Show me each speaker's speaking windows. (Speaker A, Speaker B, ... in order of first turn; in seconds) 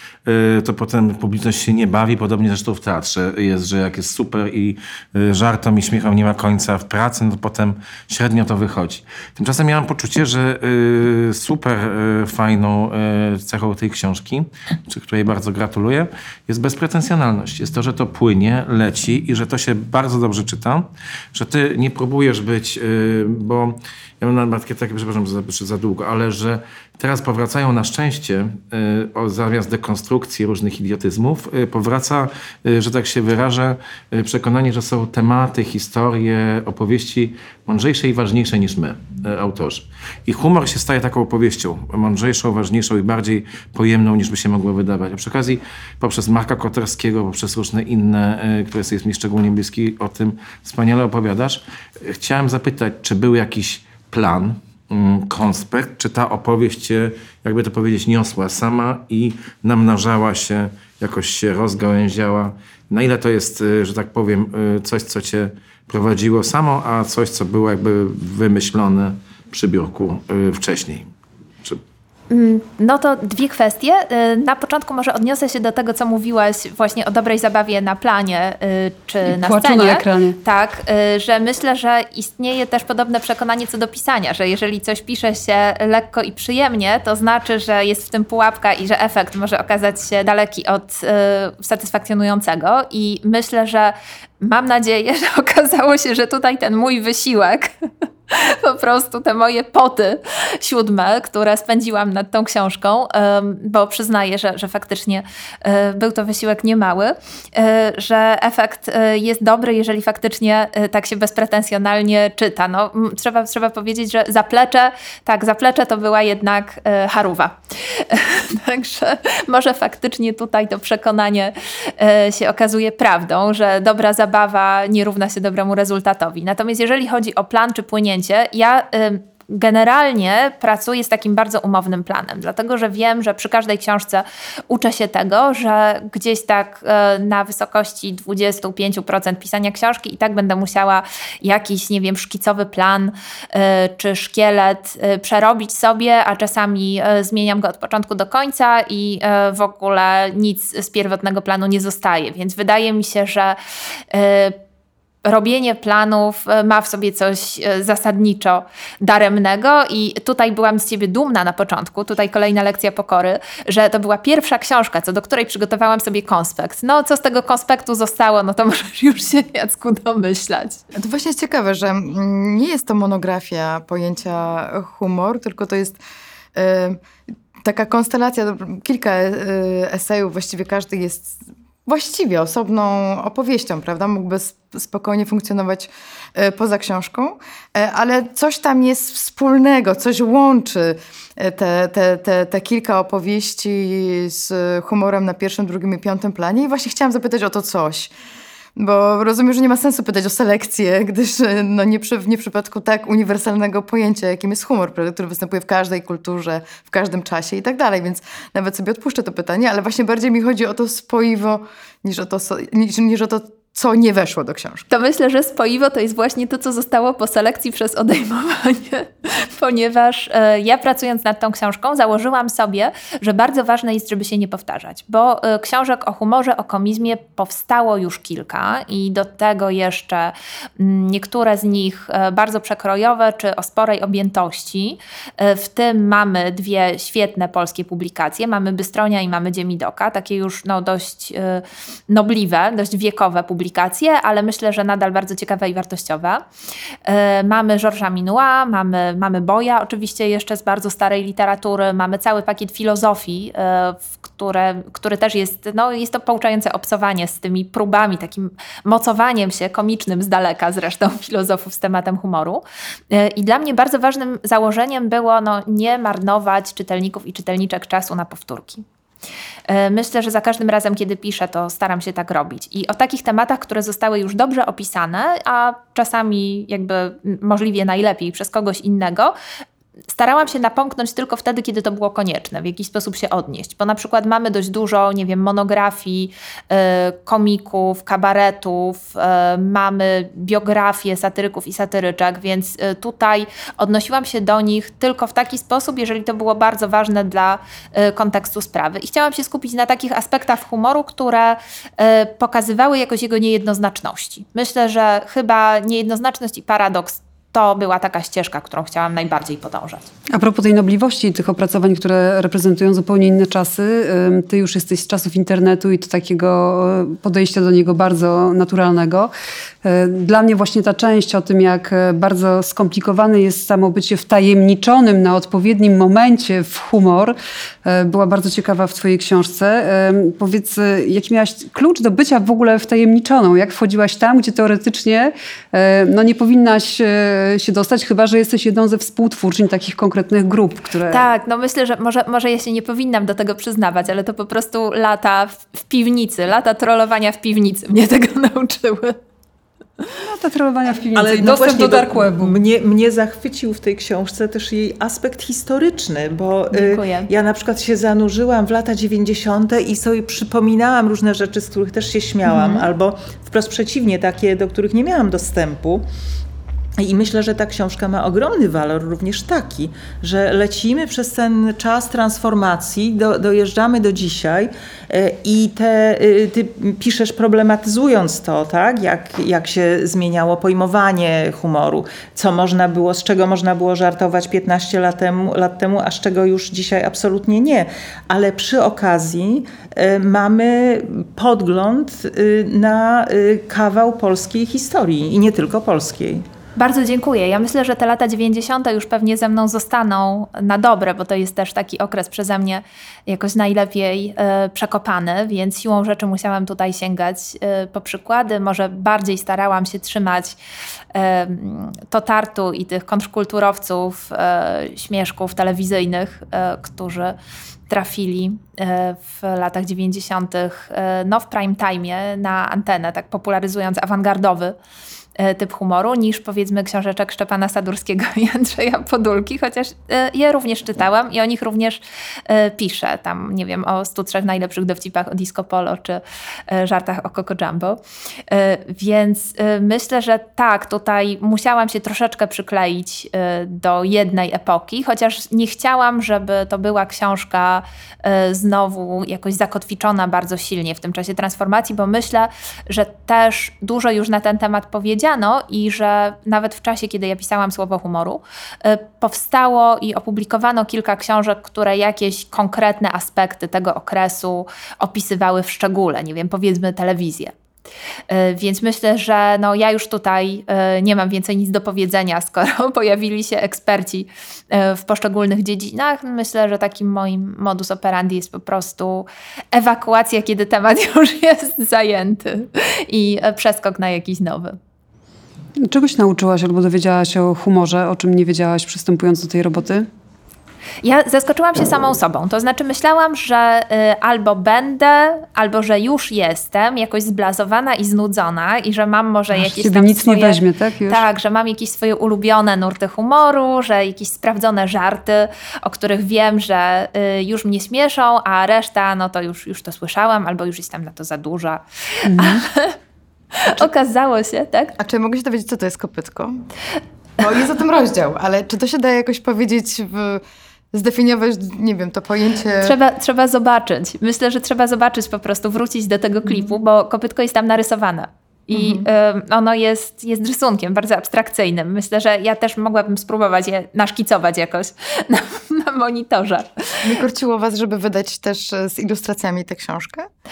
Speaker A: 0.2-71.1
Speaker B: 72.3-97.7, 98.3-153.6, 154.1-154.6, 155.2-170.8, 214.9-246.4, 247.1-268.8, 269.7-279.3, 280.1-310.1, 341.1-349.2, 356.7-357.3, 362.4-362.9, 396.8-410.6, 411.1-417.4, 417.9-424.8, 425.4-467.5, 468.3-484.8, 491.0-513.0, 513.5-514.9, 522.8-537.1
Speaker C: 79.2-80.4, 310.3-319.3, 319.8-341.2, 350.2-352.5, 485.8-490.1, 499.6-501.2, 512.3-512.6
Speaker D: 170.9-176.0, 176.5-177.0, 177.6-198.1, 198.8-214.8, 515.0-516.6, 517.4-523.0, 528.7-529.1, 537.0-540.3
Speaker E: 351.1-366.0, 367.0-396.4